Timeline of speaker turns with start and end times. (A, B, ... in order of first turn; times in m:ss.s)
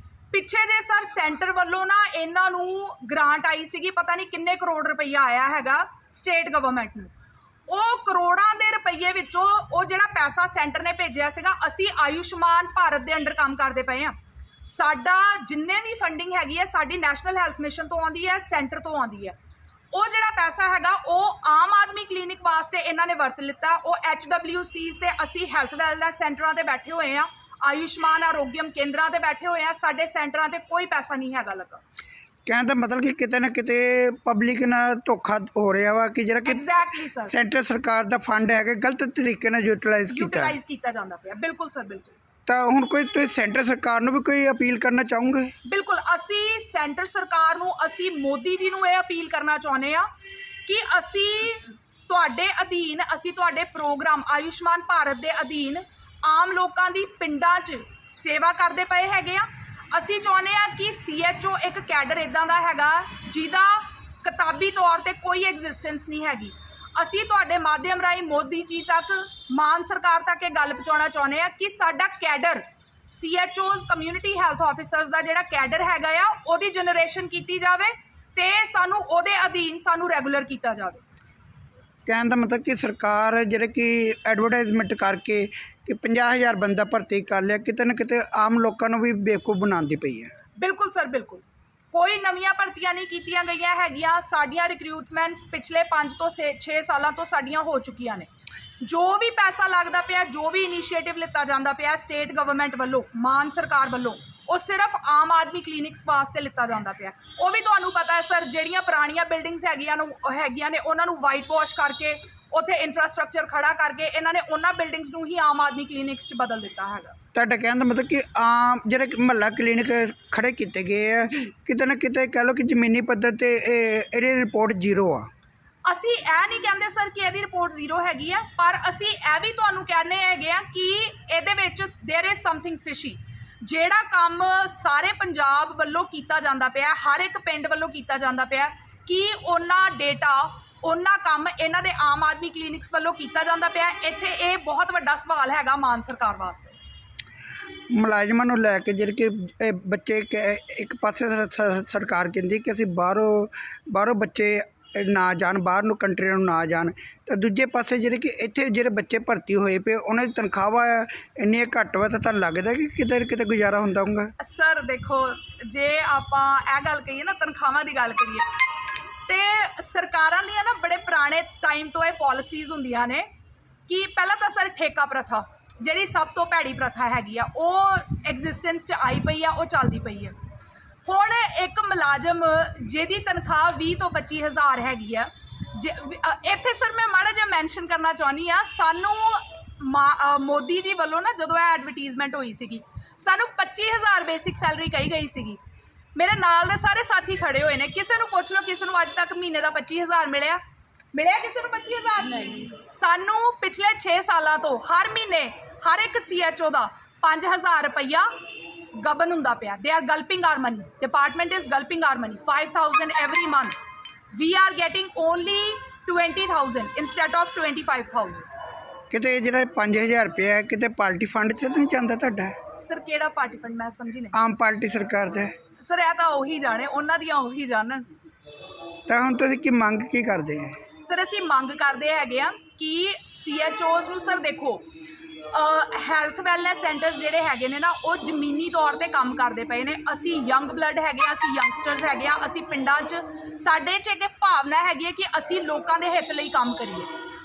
0:00.3-0:07.1 A
0:07.7-0:19.4 A
0:19.9-0:31.8 A
0:32.5-0:36.6 B
0:36.5-0:37.4 A
0:37.2-0:40.6 B
0:40.1-0:42.2 A
0:42.5-0:45.5 B
0:45.6-0:50.1 A
0:50.7-1:21.0 A
1:22.1-1:30.3 B
1:30.6-1:38.3 A
1:38.8-1:57.2 A
1:57.3-2:05.3 B
2:01.3-2:01.5 A
2:05.8-2:26.8 A
2:27.9-2:44.3 B
2:44.4-2:48.5 A
2:49.3-2:53.3 A
2:53.9-3:00.3 A
3:01.1-3:15.6 A
3:16.2-3:20.6 A
3:21.1-3:28.3 A
3:28.9-3:33.8 A
3:34.3-3:38.5 A
3:39.1-3:42.6 B
3:42.8-3:44.4 A
3:44.3-3:45.5 B
3:45.8-3:48.1 A
3:49.1-3:50.8 B
3:51.0-3:54.9 A
3:55.5-4:07.1 A